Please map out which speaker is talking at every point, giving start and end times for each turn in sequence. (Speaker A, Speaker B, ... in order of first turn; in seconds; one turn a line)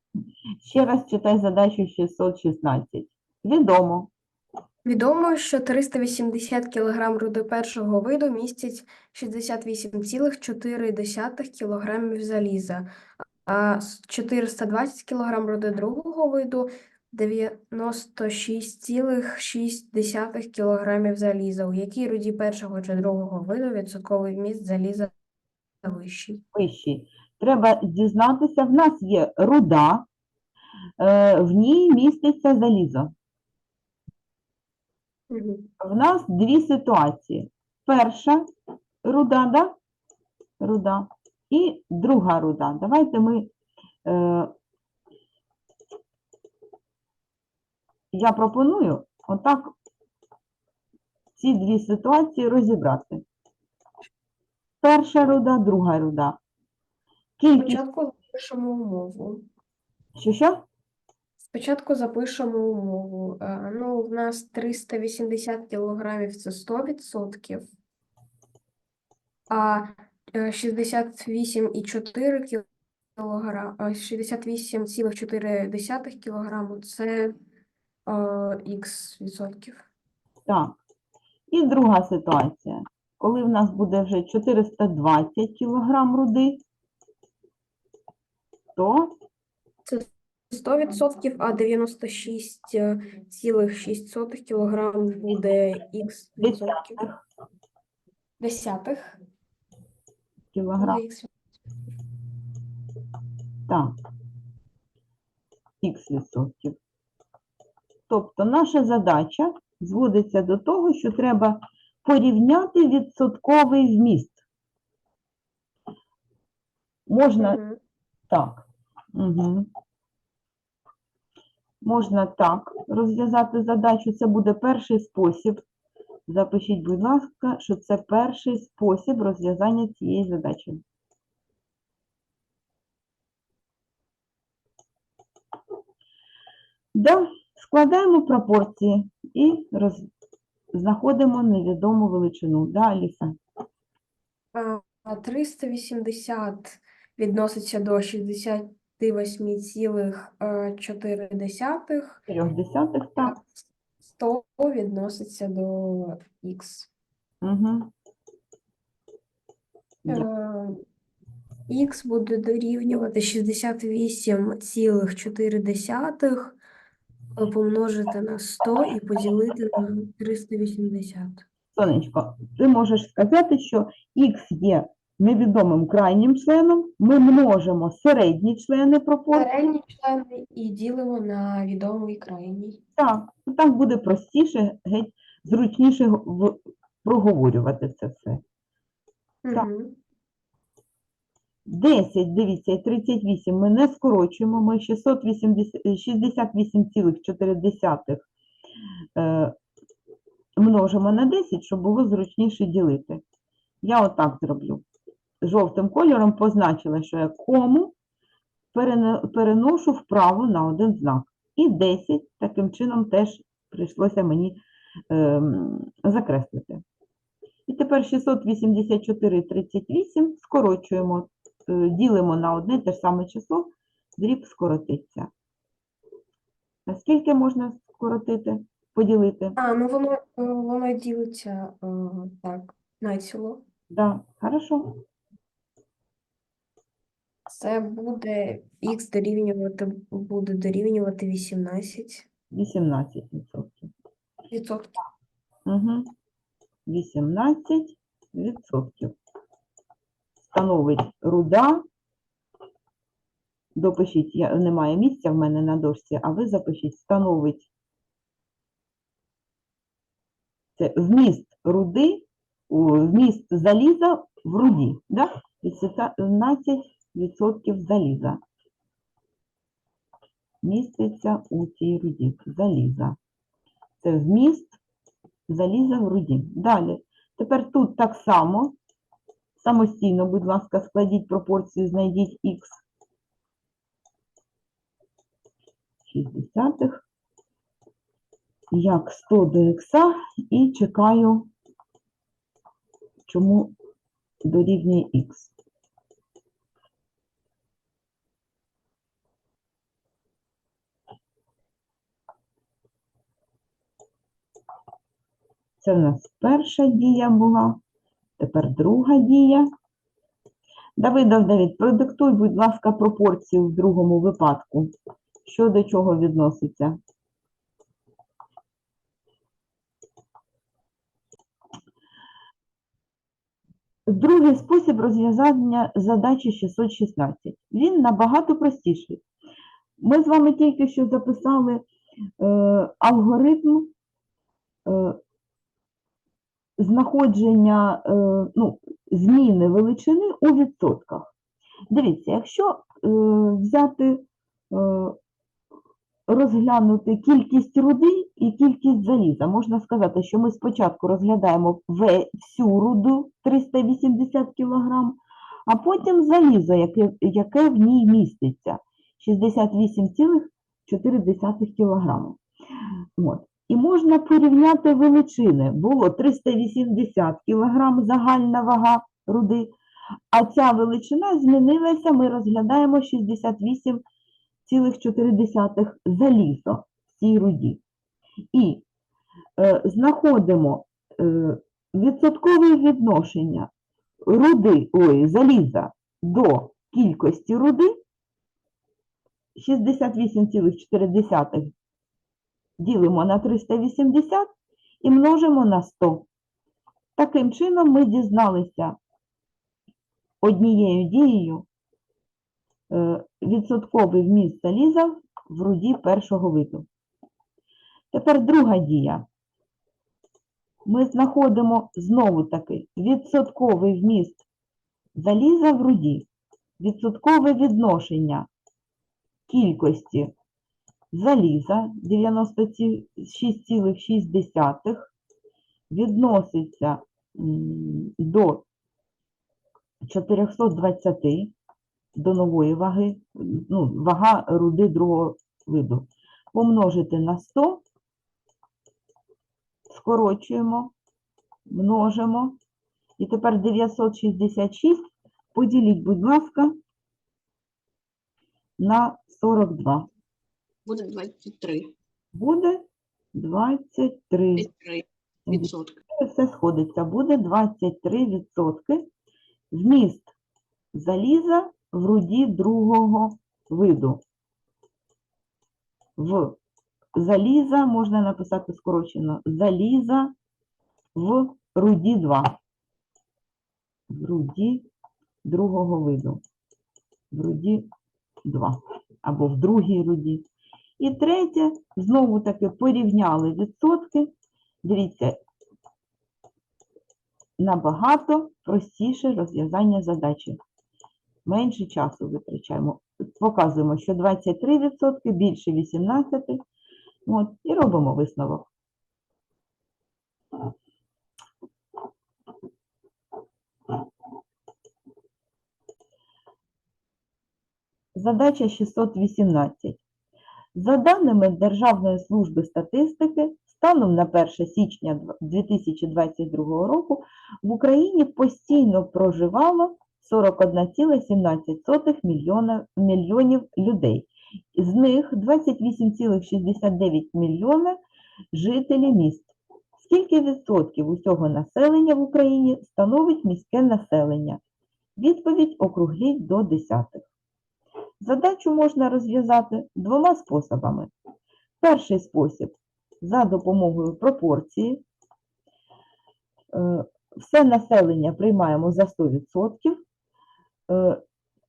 Speaker A: 0.6-4.1
Speaker B: 4.8-12.9
Speaker B: 13.4-25.1
Speaker B: 25.8-26.4
Speaker A: 26.5-30.1
Speaker A: 31.0-33.1
Speaker B: 35.3-35.7
Speaker A: 35.8-38.5
Speaker A: 39.0-39.8
Speaker A: 40.6-43.5
Speaker A: 44.0-44.5
Speaker A: 48.1-49.7
Speaker A: 51.4-53.2
Speaker A: 54.8-56.4
Speaker A: 57.4-57.8
Speaker B: 57.6-59.4
Speaker A: 60.2-60.6
Speaker B: 61.5-67.7
Speaker B: 69.5-72.6
Speaker B: 73.2-77.3
Speaker B: 78.0-79.8
Speaker A: 80.5-80.8
Speaker A: 81.5-86.6
Speaker A: 88.8-89.2
Speaker B: 89.8-97.0
Speaker A: 96.4-97.2
Speaker B: 98.4-99.2
Speaker A: 100.5-101.0
Speaker B: 100.8-101.3
Speaker A: 103.7-103.9
Speaker A: 105.8-106.8
Speaker A: 108.1-114.4
Speaker A: 117.1-117.6
Speaker B: 117.4-117.8
Speaker A: 118.3-119.7
Speaker A: 121.8-125.6
Speaker A: 126.3-130.8
Speaker A: 136.9-140.1
Speaker A: 140.7-143.3
Speaker B: 144.5-152.2
Speaker A: 152.3-153.3
Speaker B: 153.2-153.6
Speaker B: 154.1-156.9
Speaker A: 157.4-157.9
Speaker B: 160.1-160.8
Speaker B: 161.7-166.6
Speaker B: 167.3-171.4
Speaker A: 171.7-179.5
Speaker B: 179.3-182.8
Speaker A: 183.0-188.4
Speaker B: 189.4-190.0
Speaker A: 191.7-198.3
Speaker A: 199.2-199.5
Speaker A: 200.6-203.2
Speaker A: 203.8-204.8
Speaker A: 205.4-207.9
Speaker A: 208.7-216.8
Speaker A: 217.7-225.3
Speaker A: 226.9-229.6
Speaker B: 229.6-233.6
Speaker A: 233.9-235.0
Speaker B: 237.5-242.2
Speaker A: 242.5-243.9
Speaker B: 244.5-245.0
Speaker A: 245.7-246.1
Speaker A: 246.9-249.1
Speaker A: 250.4-251.8
Speaker A: 253.7-257.7
Speaker A: 260.8-268.4
Speaker A: 270.6-273.2
Speaker A: 274.0-274.8
Speaker A: 275.5-278.7
Speaker A: 279.6-282.8
Speaker A: 286.1-287.0
Speaker A: 288.7-291.5
Speaker A: 293.2-293.7
Speaker A: 294.4-295.5
Speaker A: 305.8-307.8
Speaker A: 308.4-309.7
Speaker A: 311.0-314.9
Speaker A: 315.4-317.0
Speaker A: 324.1-329.2
Speaker A: 330.0-331.9
Speaker A: 332.4-333.9
Speaker A: 334.9-335.2
Speaker A: 336.8-341.3
Speaker A: 341.9-345.2
Speaker A: 346.3-362.4
Speaker A: 363.2-369.7
Speaker A: 370.3-374.0
Speaker A: 374.6-377.8
Speaker A: 378.5-378.8
Speaker A: 379.6-383.7
Speaker A: 384.2-388.0
Speaker A: 389.6-391.7
Speaker A: 392.8-394.5
Speaker A: 395.0-396.3
Speaker A: 397.2-399.0
Speaker A: 400.4-401.6
Speaker A: 402.9-406.9
Speaker A: 408.1-409.2
Speaker A: 410.9-414.4
Speaker A: 415.1-416.3
Speaker A: 416.8-418.5
Speaker A: 419.5-420.3
Speaker A: 421.1-425.1
Speaker A: 425.9-428.6
Speaker A: 430.0-431.5
Speaker A: 432.1-437.8
Speaker A: 439.9-440.9
Speaker A: 441.7-442.6
Speaker A: 443.2-446.7
Speaker A: 448.8-450.1
Speaker C: 450.8-451.9
Speaker A: 452.3-454.7
Speaker C: 454.6-456.0
Speaker A: 455.5-459.1
Speaker A: 459.7-460.3
Speaker A: 460.9-464.2
Speaker A: 466.2-466.6
Speaker A: 467.1-470.3
Speaker A: 471.1-472.6
Speaker A: 474.1-474.9
Speaker A: 475.4-476.4
Speaker A: 477.3-477.9
Speaker A: 478.4-480.4
Speaker A: 481.0-484.3
Speaker A: 484.8-485.4
Speaker A: 487.6-490.6
Speaker A: 491.4-496.6
Speaker A: 497.2-498.7
Speaker A: 508.1-510.0
Speaker A: 510.7-528.0
Speaker A: 528.5-534.6
Speaker A: 535.2-537.2
Speaker A: 538.2-541.1
Speaker A: 541.8-545.0
Speaker A: 546.7-550.0
Speaker A: 550.9-551.2